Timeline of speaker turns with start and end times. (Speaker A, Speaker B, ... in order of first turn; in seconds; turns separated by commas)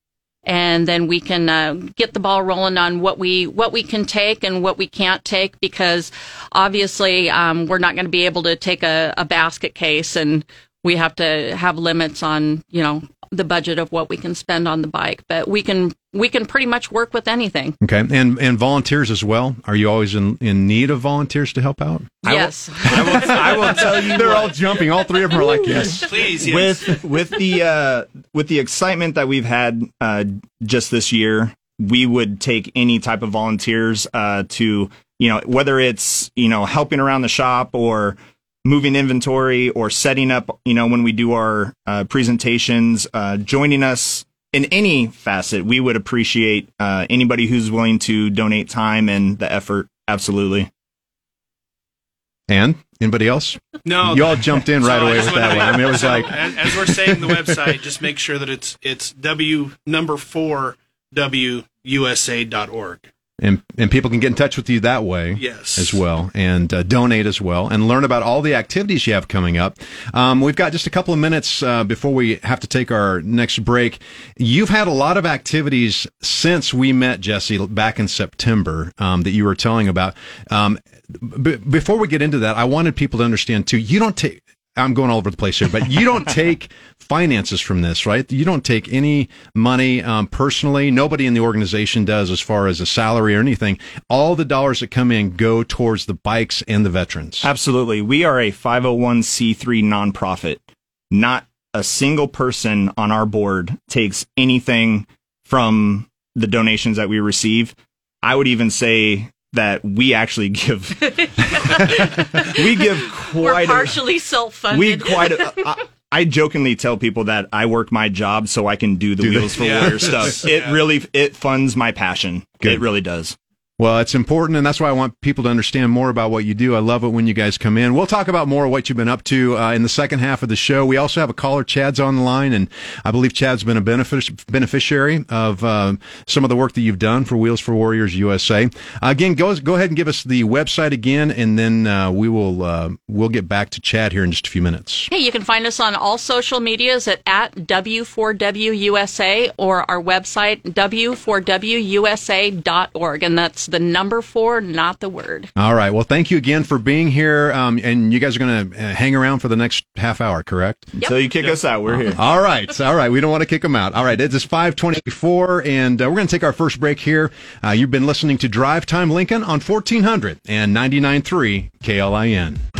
Speaker A: 0.5-17.8, Speaker B: 17.8-26.2, Speaker A: 22.2-24.4, Speaker C: 22.3-24.6, Speaker D: 26.0-27.0, Speaker C: 26.4-50.7, Speaker B: 52.5-57.5, Speaker D: 53.9-63.1, Speaker B: 63.4-97.5, Speaker D: 65.3-66.0, Speaker C: 97.4-114.0, Speaker A: 111.1-115.7, Speaker C: 114.7-123.4, Speaker B: 119.2-120.4, Speaker D: 119.6-120.8, Speaker B: 123.8-145.1, Speaker A: 145.1-155.5, Speaker B: 155.6-160.9, Speaker C: 161.0-162.2, Speaker B: 162.0-172.7